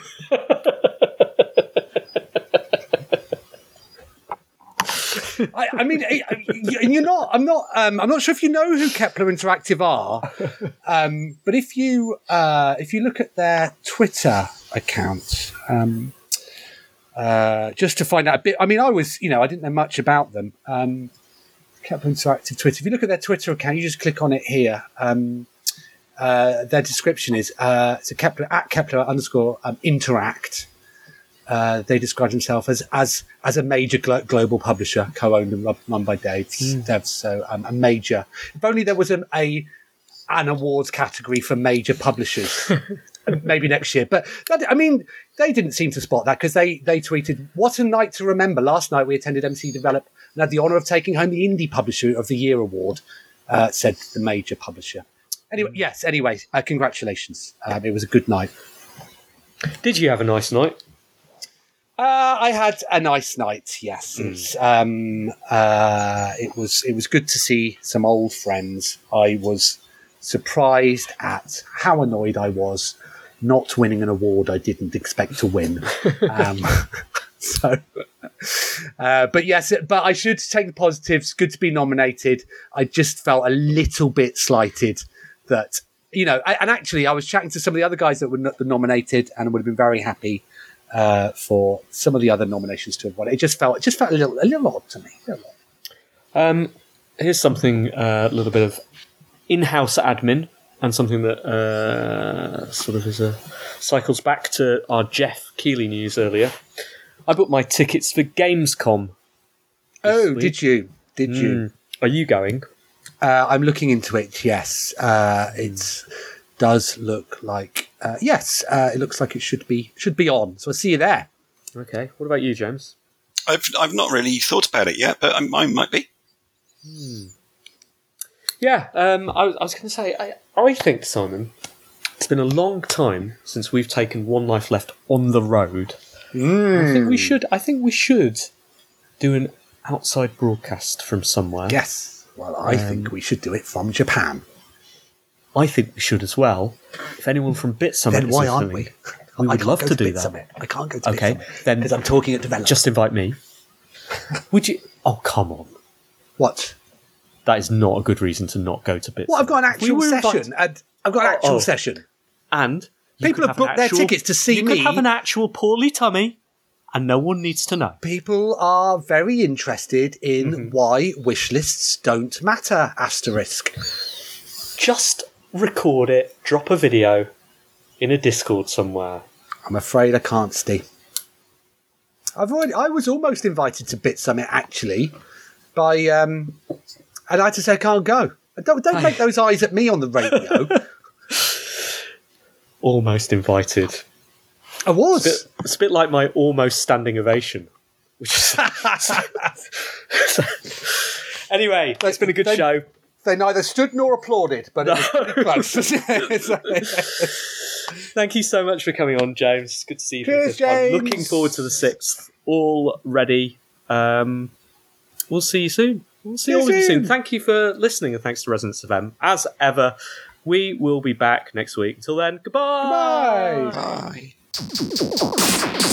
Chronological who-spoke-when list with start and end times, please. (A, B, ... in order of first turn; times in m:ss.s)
0:05.4-0:16.2 A
0:17.1-0:21.1 A
0:21.8-0:25.5 A
0:26.2-0:30.7 A
0:31.5-0:39.7 A
0:40.3-0:58.5 A
0:59.8-1:00.8 B
1:02.0-1:35.5 A
1:04.2-1:04.4 B
1:36.3-1:38.8 B
1:39.5-1:46.6 B
1:47.3-1:49.1 B
1:50.0-1:51.6 A
1:50.0-1:50.6 B
1:51.2-1:52.6 B
1:53.2-1:56.0 A
1:56.6-2:01.3 A
2:01.8-2:02.9 B
2:03.5-2:06.1 C
2:06.8-2:07.3 B
2:08.6-2:11.5 B
2:12.2-2:16.0 B
2:16.3-2:17.3 A
2:16.7-2:18.5 B
2:19.2-2:21.8 B
2:21.7-2:24.4 A
2:22.7-2:23.1 B
2:25.5-2:30.3 B
2:28.1-2:32.8 A
2:31.0-2:31.9 B
2:32.6-2:33.4 B
2:34.5-2:35.8 B
2:36.4-2:36.8 A
2:37.4-2:40.5 B
2:39.3-2:42.0 A
2:41.2-2:41.7 B
2:42.5-2:46.4 B
2:43.2-2:45.0 A
2:46.9-2:48.0 B
2:48.0-2:53.8 A
2:50.4-2:50.7 B
2:54.8-2:57.3 B
2:58.0-2:59.2 B
2:59.6-3:00.8 A
3:02.4-3:05.1 A
3:05.7-3:06.6 A
3:07.3-3:10.8 A
3:08.9-3:09.2 B
3:10.2-3:10.6 B
3:11.3-3:11.6 B
3:12.8-3:14.0 B
3:14.8-3:15.4 A
3:15.2-3:17.7 B
3:18.2-3:19.3 B
3:18.6-3:19.3 A
3:20.1-3:22.8 B
3:22.0-3:27.4 A
3:24.8-3:25.8 B
3:26.4-3:27.2 B
3:28.0-3:34.5 B
3:30.2-3:31.6 A
3:35.3-3:43.8 B
3:36.4-3:37.1 A
3:42.8-3:43.8 A
3:43.7-3:44.3 C